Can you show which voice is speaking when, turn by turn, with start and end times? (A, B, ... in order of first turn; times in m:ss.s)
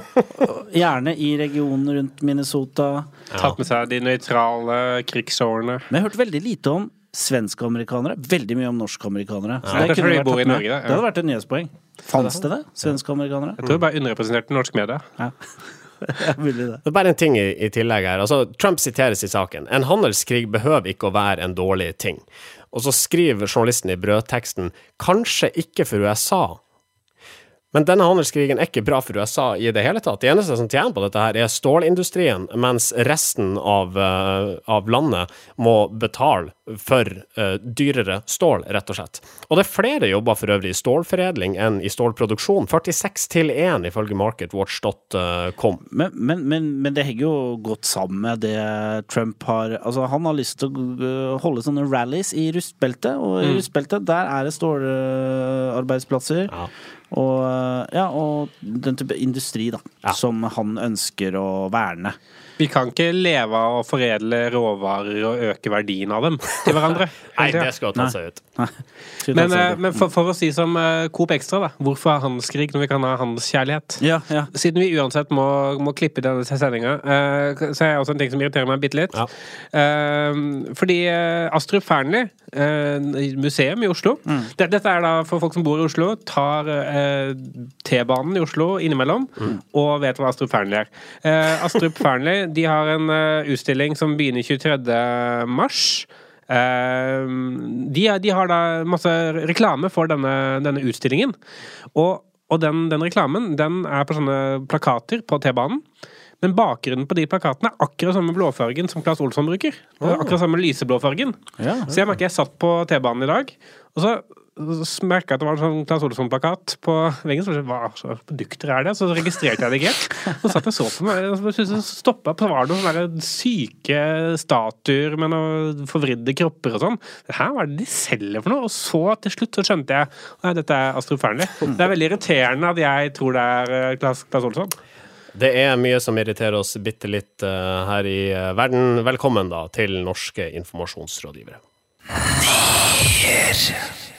0:00.3-0:03.1 A
0:03.4-0:05.9 B
0:05.9-0:13.6 A
0:09.7-0:11.0 B
0:13.6-0:15.0 B
0:16.0-0:16.8 A
0:16.8-0:26.6 C
0:27.7-0:45.8 C
0:45.9-0:56.5 A
0:57.1-1:02.2 A
1:02.6-1:07.7 B
1:07.4-1:08.4 C
1:08.0-1:10.1 A
1:09.3-1:41.4 B
1:14.0-1:14.5 A
1:42.0-1:45.8 B
1:46.4-1:51.4 B
1:50.0-1:50.3 C
1:51.6-1:51.9 A
1:51.9-2:14.8 B
2:15.4-2:21.6 C